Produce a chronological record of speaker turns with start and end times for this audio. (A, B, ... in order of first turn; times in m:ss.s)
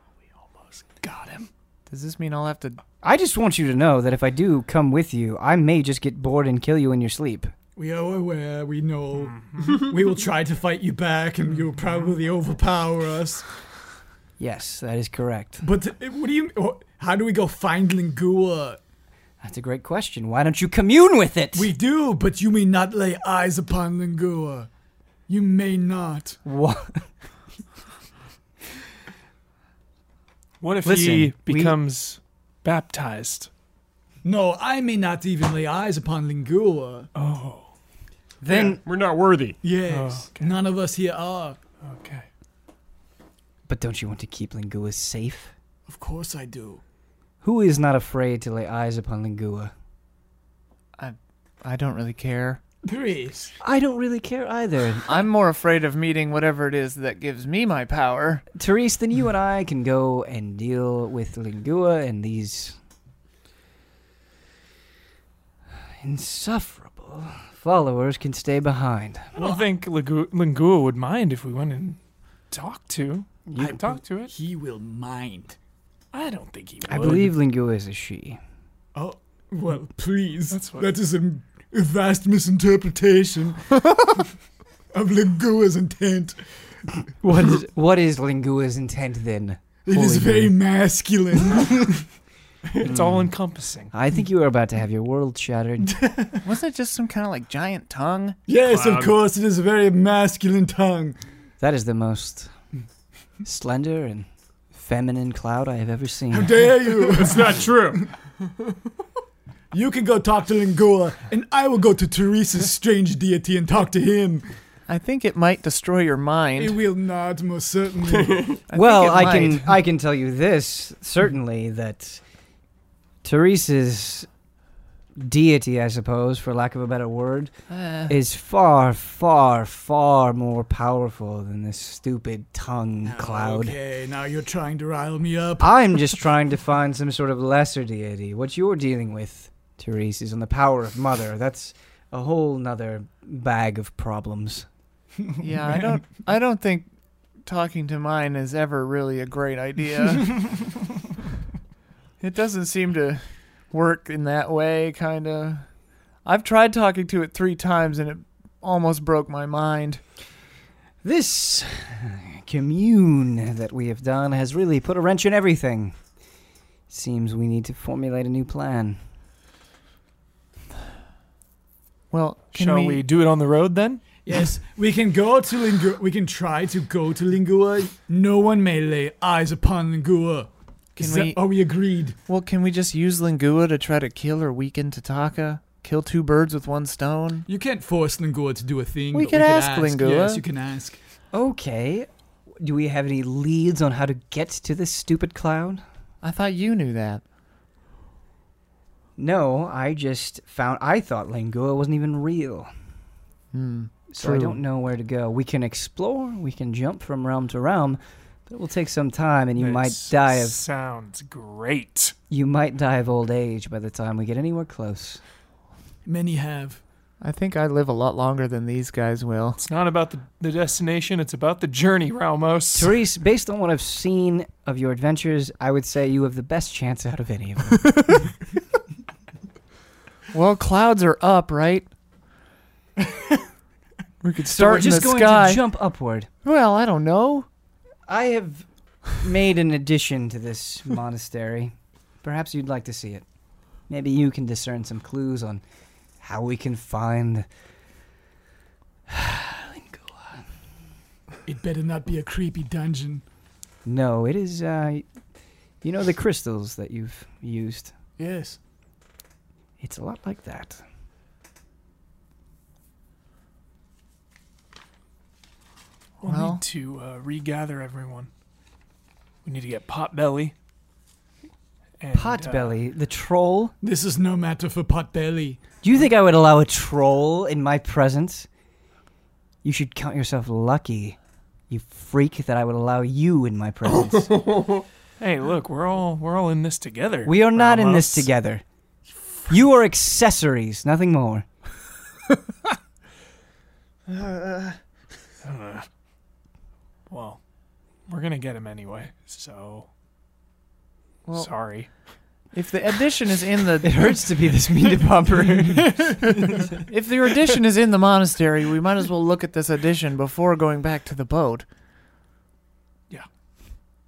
0:00.6-0:01.5 A
0:01.9-0:02.8 B
0:03.0-0:07.5 C
0:07.8-0:13.5 D
0:09.2-0:09.8 A
0:11.7-0:12.1 A
0:14.4-0:15.7 C
0:15.6-0:18.8 D
0:19.4-0:21.7 C
0:21.5-0:24.7 D
0:25.3-0:26.4 D
0:26.4-0:27.1 C
0:30.6-0:33.5 A
0:30.8-0:31.8 C
0:34.2-0:37.1 D
0:37.1-0:37.7 A
0:38.4-0:38.8 C
0:38.5-0:39.6 E
0:39.6-0:41.6 D
0:39.8-0:40.6 A
0:41.8-0:42.3 A
0:43.7-0:45.5 C
0:45.9-0:46.8 D
0:47.4-0:49.7 C
0:51.0-0:52.6 B
0:52.8-0:53.6 D
0:53.6-0:55.3 C
0:55.1-0:58.4 B
0:58.6-1:02.8 C
1:06.0-1:09.3 C
1:09.4-1:12.0 A
1:09.4-1:09.7 D
1:12.5-1:14.3 A
1:13.5-1:13.8 C
1:13.6-1:15.6 D
1:16.1-1:17.3 A
1:16.9-1:18.4 C
1:19.0-1:24.0 D
1:20.5-1:20.9 A
1:24.9-1:26.4 D
1:27.2-1:30.6 C
1:29.9-1:32.1 D
1:32.8-1:33.9 A
1:32.8-1:33.3 C
1:33.9-1:36.0 C
1:36.0-1:36.4 D
1:36.4-1:38.4 B
1:38.5-1:41.2 D
1:38.6-1:39.2 E
1:41.6-1:42.5 C
1:43.4-1:46.7 C
1:46.3-1:47.7 D
1:47.1-1:48.0 E
1:49.7-1:54.5 D
1:54.9-1:56.8 B
1:56.6-1:58.5 D
1:58.1-1:58.6 E
1:58.7-1:59.7 B
1:58.7-2:02.2 C
2:03.2-2:04.3 C
2:05.2-2:07.5 C
2:07.7-2:08.1 B
2:08.1-2:13.8 C
2:13.0-2:15.7 D
2:15.6-2:24.7 C
2:25.4-2:26.9 B
2:27.4-2:30.5 B
2:32.2-2:35.7 B
2:36.2-2:40.0 B
2:41.0-2:46.0 C
2:46.9-2:49.0 C
2:52.1-2:53.0 B
2:52.6-2:54.0 A
2:54.2-3:02.2 D
3:01.0-3:01.4 B
3:02.3-3:07.5 B
3:07.5-3:11.0 D
3:09.1-3:10.4 B
3:11.3-3:12.1 C
3:12.6-3:15.8 C
3:16.2-3:17.2 B
3:19.2-3:22.7 C
3:23.5-3:24.6 B
3:24.1-3:30.6 C
3:29.6-3:32.2 A
3:32.3-3:35.2 C
3:36.0-3:36.8 D
3:37.2-3:39.6 B
3:39.6-3:42.9 A
3:42.8-3:48.1 C
3:50.3-3:51.9 B
3:54.2-3:55.6 B
3:54.6-3:56.3 C
3:56.4-3:57.5 B
3:58.1-4:03.2 C
4:03.9-4:05.6 C
4:06.2-4:07.5 C
4:09.1-4:10.4 C
4:11.4-4:13.2 D
4:13.8-4:15.1 C
4:15.8-4:17.9 C
4:18.2-4:18.6 D
4:19.8-4:20.8 C
4:26.2-4:28.3 A
4:26.2-4:26.6 B
4:29.4-4:30.5 A
4:32.0-4:32.8 A
4:32.1-4:33.7 C
4:33.8-4:35.6 D
4:35.8-4:38.5 C
4:39.6-4:41.2 C
4:41.7-4:44.3 C
4:44.2-4:44.8 E
4:45.2-4:48.3 A
4:47.2-4:48.6 C
4:49.5-4:51.5 C
4:54.1-4:54.8 B
4:55.4-4:55.9 A
4:57.1-4:57.4 A
4:58.1-4:59.9 A
5:01.3-5:01.8 B
5:01.4-5:01.9 A
5:02.5-5:04.3 B
5:03.8-5:06.1 C
5:06.6-5:11.6 B